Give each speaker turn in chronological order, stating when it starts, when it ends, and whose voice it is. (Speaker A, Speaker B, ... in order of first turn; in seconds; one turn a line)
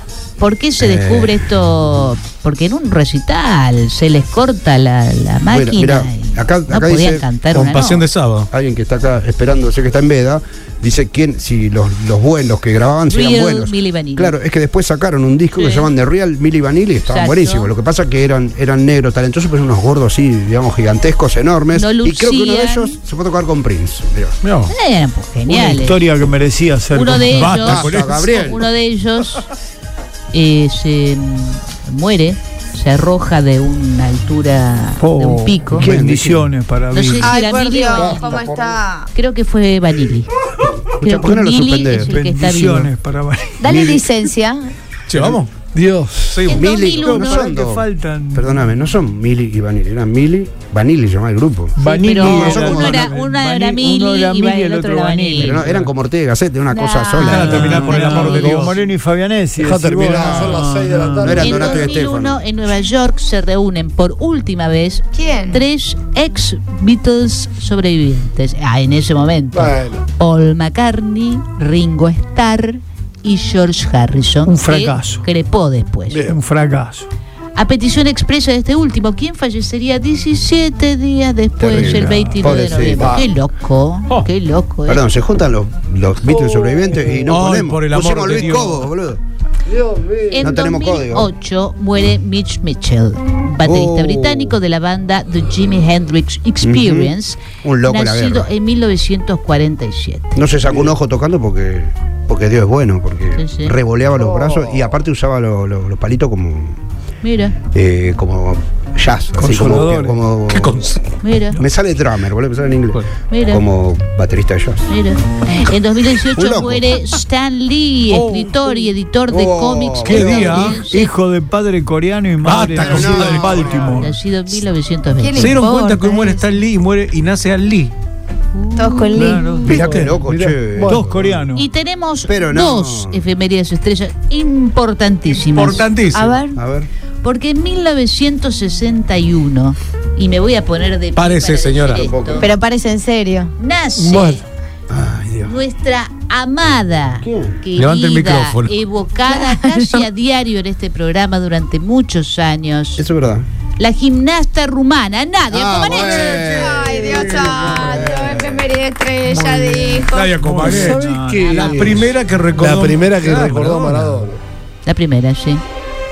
Speaker A: 0.4-8.1
Speaker B: 0.8-1.4
Speaker B: 5.5-7.3
Speaker C: 7.5-8.5
Speaker B: 8.5-24.4
Speaker A: 13.1-14.3
Speaker A: 15.6-15.9
Speaker A: 17.0-17.7
Speaker A: 21.7-23.0
Speaker C: 24.4-24.7
Speaker A: 24.7-26.0
Speaker D: 25.4-27.6
Speaker A: 26.9-29.4
Speaker C: 27.2-28.6
Speaker B: 27.6-28.7
Speaker A: 30.3-35.9
Speaker D: 35.0-37.4
Speaker B: 35.7-36.5
Speaker A: 36.9-38.5
Speaker E: 37.2-39.1
Speaker B: 37.9-38.8
Speaker A: 39.1-40.3
Speaker B: 40.9-42.1
Speaker A: 41.0-42.9
Speaker D: 41.9-43.8
Speaker E: 43.6-44.7
Speaker B: 43.6-44.0
Speaker C: 45.1-45.5
Speaker F: 45.7-46.4
Speaker C: 46.3-46.6
Speaker A: 46.5-47.4
Speaker B: 46.5-53.1
Speaker D: 47.0-48.8
Speaker D: 51.8-55.9
Speaker A: 51.9-55.6
Speaker B: 55.4-57.9
Speaker E: 56.7-57.2
Speaker D: 57.2-61.6
Speaker C: 57.2-58.8
Speaker E: 59.7-61.8
Speaker B: 60.1-60.6
Speaker B: 61.2-62.4
Speaker A: 61.4-76.3
Speaker E: 65.1-65.6
Speaker F: 69.5-70.0
Speaker D: 74.4-75.3
Speaker D: 76.1-77.1
Speaker A: 77.5-85.0
Speaker B: 81.6-83.2
Speaker D: 81.7-82.6
Speaker B: 84.9-89.2
Speaker F: 86.4-87.1
Speaker C: 87.2-88.9
Speaker F: 89.7-90.4
Speaker A: 90.3-100.4
Speaker B: 90.4-91.3
Speaker B: 93.6-94.6
Speaker B: 96.6-98.5
Speaker B: 100.3-106.8
Speaker A: 103.3-103.7
Speaker A: 107.2-107.6
Speaker B: 107.7-110.8
Speaker D: 109.3-110.2
Speaker C: 110.5-111.0
Speaker A: 111.2-111.6
Speaker B: 111.5-114.9
Speaker A: 113.3-113.6
Speaker A: 114.9-121.1
Speaker B: 116.3-116.9
Speaker C: 118.1-118.8
Speaker B: 119.3-120.8
Speaker C: 120.0-120.8
Speaker D: 120.9-124.2
Speaker C: 122.4-123.3
Speaker B: 122.8-123.9
Speaker A: 123.9-125.7
Speaker E: 125.2-126.4
Speaker C: 125.3-127.9
Speaker E: 128.8-129.9
Speaker D: 128.8-130.1
Speaker C: 129.6-130.2
Speaker B: 129.6-131.4
Speaker F: 130.3-130.6
Speaker D: 130.7-131.7
Speaker A: 131.5-135.9
Speaker B: 132.3-133.2
Speaker C: 135.4-136.4
Speaker E: 136.1-136.6
Speaker B: 136.5-136.9
Speaker A: 137.2-142.5
Speaker C: 141.1-142.1
Speaker B: 141.9-142.5
Speaker E: 142.4-143.5
Speaker A: 143.6-144.4
Speaker F: 144.0-144.4
Speaker B: 144.9-145.6
Speaker A: 145.4-153.0
Speaker B: 147.2-147.6
Speaker C: 147.8-148.8
Speaker B: 153.0-153.4
Speaker A: 153.8-156.4
Speaker B: 155.5-158.7
Speaker E: 155.8-161.7
Speaker D: 159.2-162.0
Speaker C: 160.1-164.2
Speaker A: 161.3-162.1
Speaker F: 162.6-164.4
Speaker D: 163.3-163.7
Speaker A: 164.8-165.6